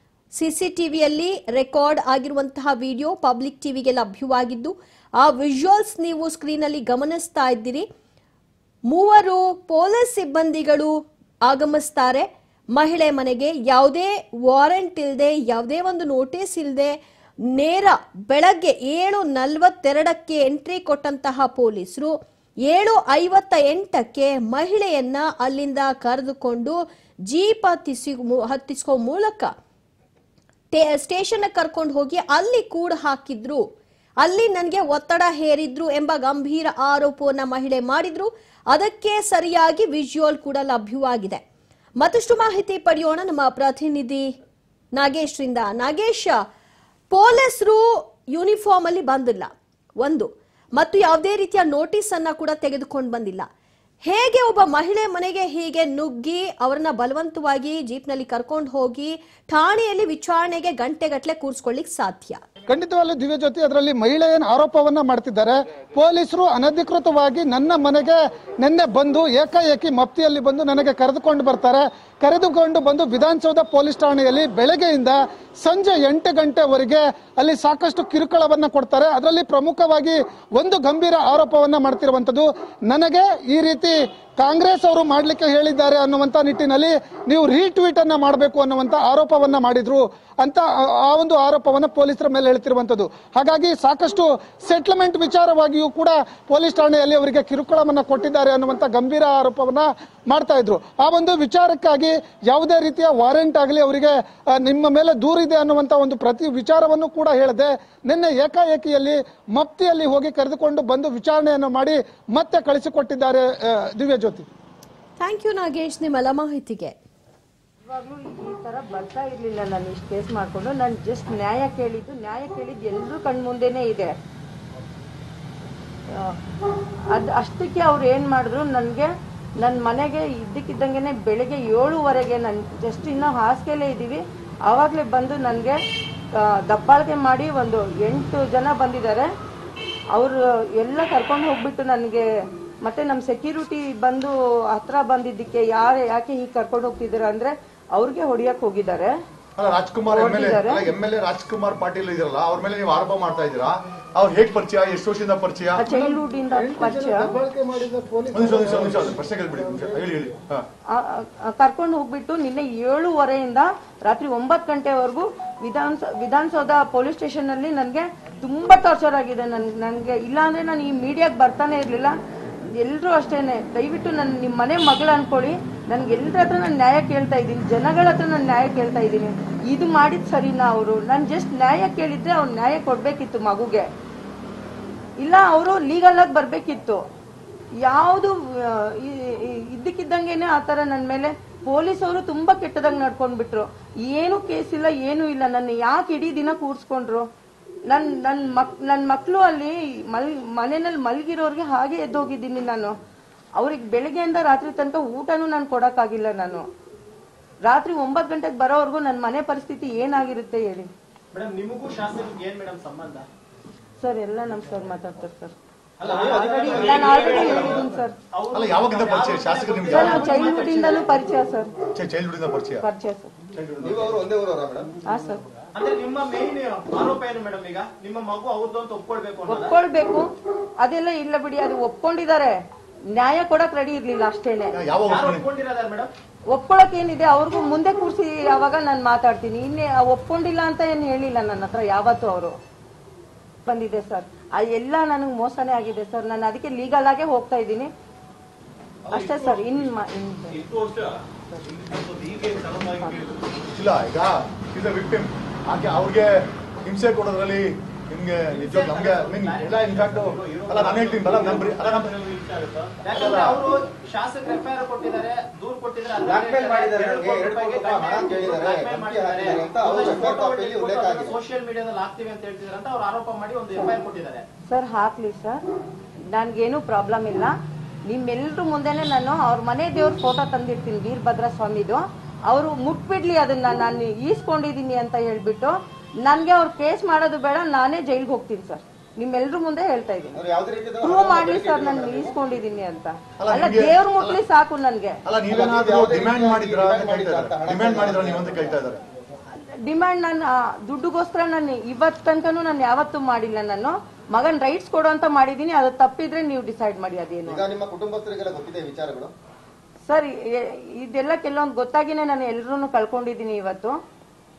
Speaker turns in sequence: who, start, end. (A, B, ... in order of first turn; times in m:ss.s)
0:00.4-0:07.9 A
0:08.9-0:10.9 A
0:11.5-0:17.0 A
0:17.6-0:22.1 A
0:22.7-0:29.5 A
0:30.7-0:33.6 A
0:34.2-0:41.4 A
0:42.0-0:44.3 A
0:45.0-0:46.4 A
0:47.1-0:49.5 A
0:50.0-0:53.5 A
0:54.1-1:02.4 A
1:02.7-1:54.5 B
1:55.2-1:57.0 A
1:57.8-2:04.1 C
2:07.1-2:09.1 C
2:09.6-2:15.8 C
2:16.7-2:19.3 C
2:20.2-2:22.2 C
2:22.8-2:29.1 C
2:29.6-2:35.8 D
2:30.1-2:30.8 C
2:35.8-2:37.3 C
2:35.9-2:40.0 B
2:38.3-2:40.6 D
2:40.9-2:52.1 C
2:52.8-3:03.9 C
3:05.2-3:07.0 C
3:07.9-3:17.3 C
3:17.9-3:22.9 C
3:23.6-3:26.6 C
3:27.7-3:30.9 C
3:31.3-3:33.3 E
3:34.0-3:35.5 C
3:36.0-3:41.1 E
3:36.0-3:37.8 F
3:36.4-3:38.2 C
3:38.5-3:40.3 D
3:39.9-3:41.8 C
3:42.0-3:42.9 D
3:42.8-3:43.3 C
3:43.5-3:44.2 D
3:43.8-3:44.9 F
3:45.1-3:45.4 C
3:45.8-3:49.7 E
3:49.5-3:50.3 C
3:50.8-3:52.6 C
3:53.1-3:54.8 C
3:54.7-3:55.4 D
3:55.0-3:56.1 E
3:56.5-4:02.6 C
4:03.7-4:07.9 C
4:09.1-4:09.9 E
4:09.1-4:10.6 C
4:10.5-4:13.5 E
4:13.7-4:16.3 D
4:16.8-4:22.2 D
4:18.5-4:34.5 E
4:23.1-4:23.6 D
4:26.2-4:31.4 F
4:34.7-4:35.6 C
4:36.3-4:37.5 C
4:38.1-4:50.4 C
4:50.3-4:52.4 F
4:51.0-4:55.2 C
4:53.4-4:54.4 D
4:55.2-4:59.0 D
4:55.5-4:58.8 F
4:59.9-5:07.6 C
5:07.5-5:09.3 F
5:10.1-5:14.0 C